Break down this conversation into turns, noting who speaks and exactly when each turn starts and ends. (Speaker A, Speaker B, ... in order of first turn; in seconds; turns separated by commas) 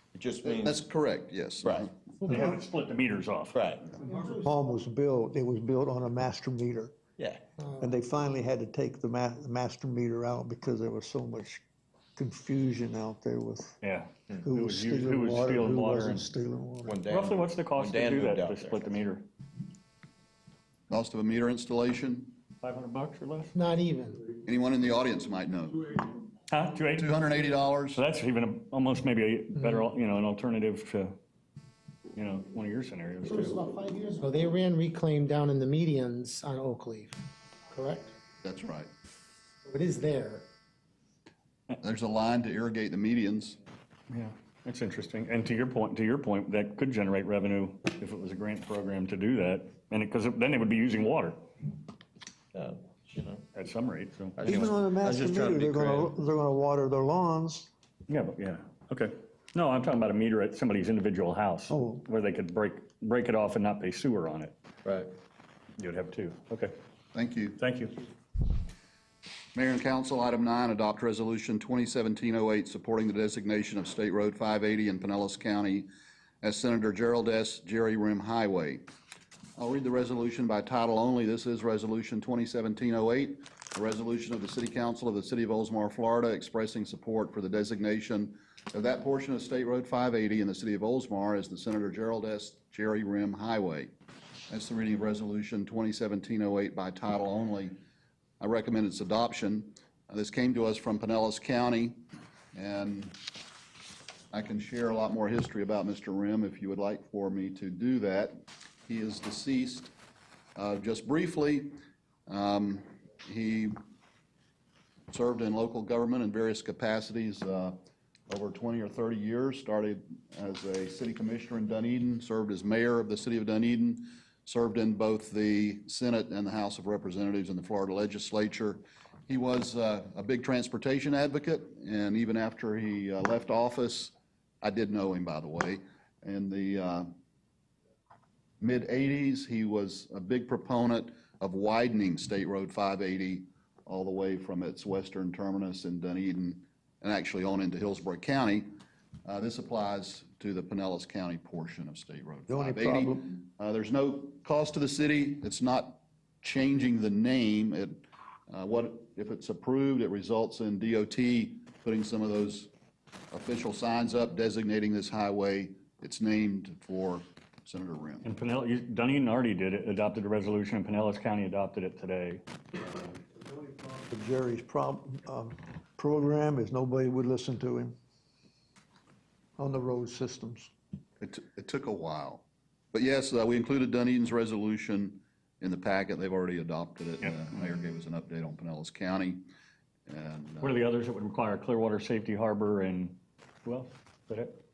Speaker A: 0.1-0.8, Speaker B: 0.4-1.9, Speaker A: 1.6-1.9, Speaker C: 2.2-3.6, Speaker D: 2.3-2.6, Speaker A: 3.5-3.9, Speaker E: 4.0-4.3, Speaker D: 4.0-7.0, Speaker A: 7.2-7.4, Speaker E: 7.6-7.9, Speaker D: 7.8-11.6, Speaker D: 12.2-13.8, Speaker C: 13.8-16.3, Speaker D: 14.4-17.0, Speaker A: 16.8-19.0, Speaker C: 17.1-19.2, Speaker B: 20.9-22.4, Speaker C: 22.6-23.5, Speaker E: 23.5-24.2, Speaker B: 24.4-26.1, Speaker C: 26.5-27.1, Speaker B: 26.9-28.0, Speaker C: 27.9-31.1, Speaker C: 32.1-33.6, Speaker E: 33.2-38.1, Speaker B: 38.4-38.9, Speaker E: 39.6-40.5, Speaker B: 41.8-43.6, Speaker C: 44.1-51.4, Speaker A: 52.5-53.4, Speaker C: 53.5-54.5, Speaker A: 54.4-56.1, Speaker D: 54.4-57.7, Speaker C: 58.1-64.5, Speaker D: 61.7-62.0, Speaker A: 64.8-65.1, Speaker C: 65.8-66.7, Speaker B: 67.1-67.6, Speaker C: 67.6-67.9, Speaker B: 69.5-75.9, Speaker B: 76.4-78.8, Speaker B: 79.5-93.9, Speaker B: 94.5-97.8, Speaker B: 98.4-102.0, Speaker B: 102.5-103.2, Speaker B: 104.3-109.9, Speaker B: 110.5-113.8, Speaker B: 115.1-137.1, Speaker B: 138.6-148.7, Speaker B: 149.2-162.7, Speaker D: 152.5-153.3, Speaker B: 163.3-168.3, Speaker C: 168.2-172.4, Speaker D: 173.4-177.9, Speaker D: 179.6-180.7, Speaker B: 181.2-189.5, Speaker B: 190.1-190.8, Speaker C: 190.6-194.6